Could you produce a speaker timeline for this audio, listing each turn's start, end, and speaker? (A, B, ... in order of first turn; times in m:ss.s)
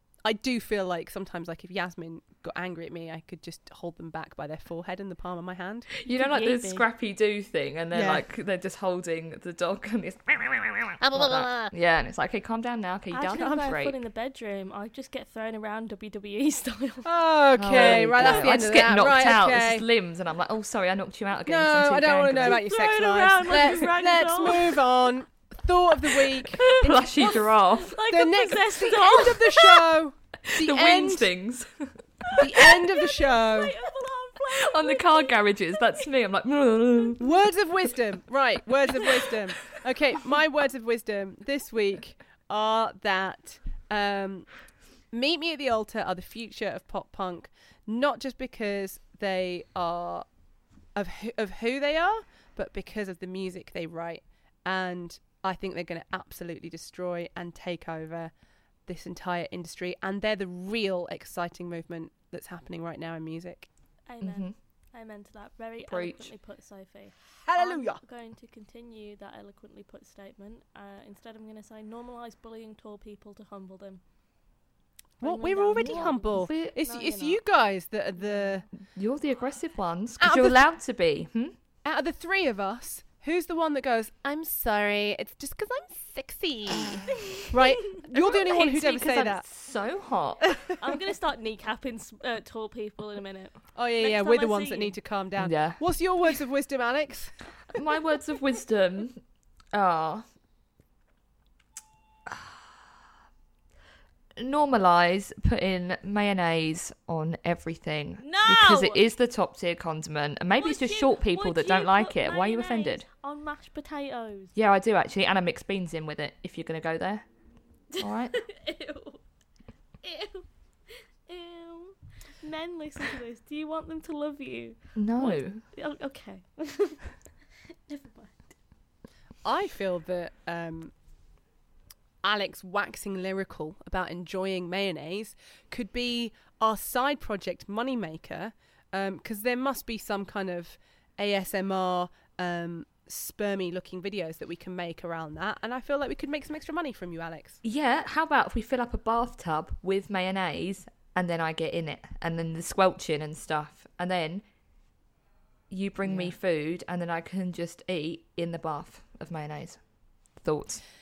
0:00.2-0:05.9 A
0:05.9-0:14.0 B
0:06.1-0:06.8 C
0:07.9-0:08.2 A
0:11.0-0:11.7 A
0:13.1-0:17.1 C
0:17.0-0:19.9 A
0:17.6-0:22.6 B
0:17.7-0:18.5 C
0:21.5-0:27.1 A
0:22.4-0:24.8 C
0:26.1-0:29.7 C
0:26.7-0:28.0 B
0:28.1-0:31.3 A
0:30.5-0:32.6 B
0:32.3-0:36.1 C
0:32.4-0:33.7 A
0:34.5-0:37.4 B
0:37.2-0:44.5 A
0:45.1-0:50.3 A
0:51.0-0:58.3 A
0:58.9-1:03.7 A
1:04.1-1:14.0 C
1:04.2-1:04.5 B
1:05.9-1:06.3 B
1:07.5-1:08.0 A
1:15.2-1:18.7 A
1:15.2-1:17.4 C
1:15.8-1:16.8 B
1:18.9-1:21.6 B
1:20.2-1:20.7 A
1:21.8-1:27.0 A
1:26.8-1:27.2 B
1:27.1-1:27.5 C
1:27.5-1:29.4 A
1:28.1-1:30.8 B
1:30.8-1:35.0 C
1:33.8-1:37.3 A
1:35.4-1:35.8 B
1:37.7-1:39.2 B
1:39.7-1:40.2 B
1:44.4-1:53.0 B
1:48.2-1:49.0 C
1:50.6-1:54.5 C
1:54.6-1:57.2 B
1:58.0-1:59.2 C
1:58.0-1:58.4 B
2:00.0-2:00.5 C
2:01.3-2:07.1 C
2:05.0-2:05.6 B
2:07.9-2:08.4 C
2:09.4-2:10.9 A
2:12.2-2:27.6 A
2:27.6-2:34.4 B
2:35.7-2:39.8 B
2:36.0-2:36.4 A
2:40.4-2:40.8 B